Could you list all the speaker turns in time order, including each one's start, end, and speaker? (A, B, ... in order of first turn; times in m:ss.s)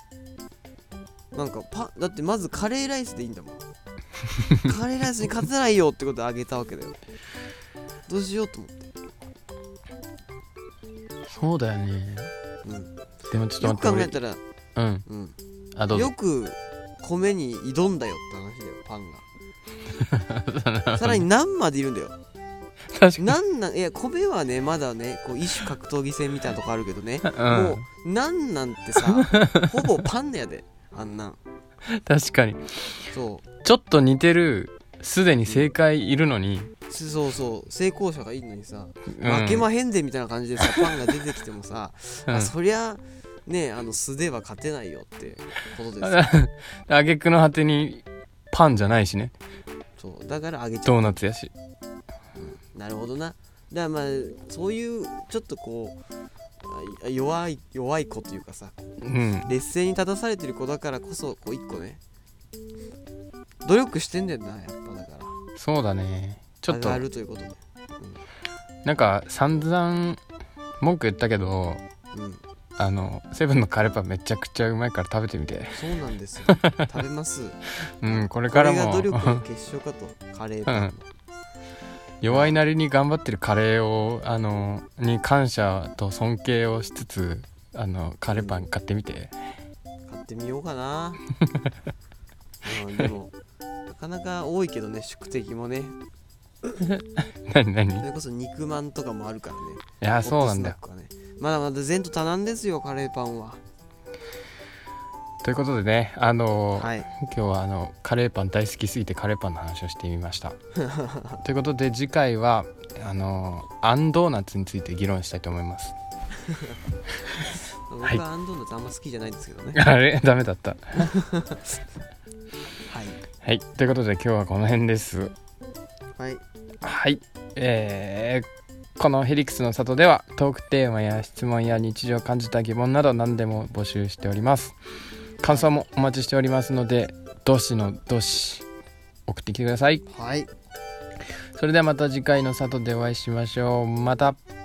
0:01.3-0:03.6 A
0:04.6-0:07.0 A
0:08.1-0:08.9 A
0:11.3-0:12.3 B
0:12.6-0:12.9 A
0:13.3-0:14.1 B
0:13.6-0:14.4 A
0:14.8-0:15.1 B
0:15.1-0:15.4 A
0:15.8-0:16.1 B
0:15.9-0:19.2 A
0:20.1-0:21.2 B
0:21.0-0:22.2 A
0:22.9-0:23.3 B
0:23.2-0:31.4 A
0:27.2-0:27.8 B
0:29.2-0:29.7 B
0:31.9-0:33.0 B
0:33.1-0:33.5 A
0:33.6-0:36.7 B
0:35.4-0:35.7 A
0:36.9-0:46.3 A
0:39.1-0:39.6 B
0:46.0-0:49.3 B
0:50.0-0:51.2 A
0:50.9-0:51.5 B
0:52.4-0:56.0 A
0:56.6-1:02.0 A
0:59.0-0:59.5 B
1:03.6-1:05.4 A
1:05.6-1:07.0 B
1:06.7-1:08.2 A
1:08.8-1:10.2 B
1:10.8-1:11.8 B
1:12.1-1:12.4 A
1:12.8-1:15.8 B
1:15.7-1:17.6 A
1:16.5-1:16.9 B
1:18.0-1:19.4 B
1:18.5-1:21.0 A
1:20.7-1:21.0 B
1:22.2-1:29.3 B
1:22.3-1:22.6 A
1:28.3-1:28.7 A
1:30.1-1:31.2 A
1:32.6-1:33.3 A
1:33.9-1:36.0 A
1:36.8-1:38.0 B
1:38.0-1:43.6 A
1:40.0-1:40.8 B
1:45.4-1:50.6 B
1:46.8-1:47.1 A
1:50.8-1:51.4 A
1:51.4-1:55.9 B
1:57.9-1:59.8 A
1:59.7-2:01.1 B
2:01.0-2:01.6 A
2:02.9-2:03.2 A
2:03.4-2:05.3 B
2:06.2-2:06.4 A
2:06.8-2:08.5 B
2:09.0-2:14.8 B
2:15.4-2:18.6 B
2:15.5-2:15.7 A
2:19.3-2:20.0 B
2:20.1-2:20.5 A
2:21.6-2:24.4 B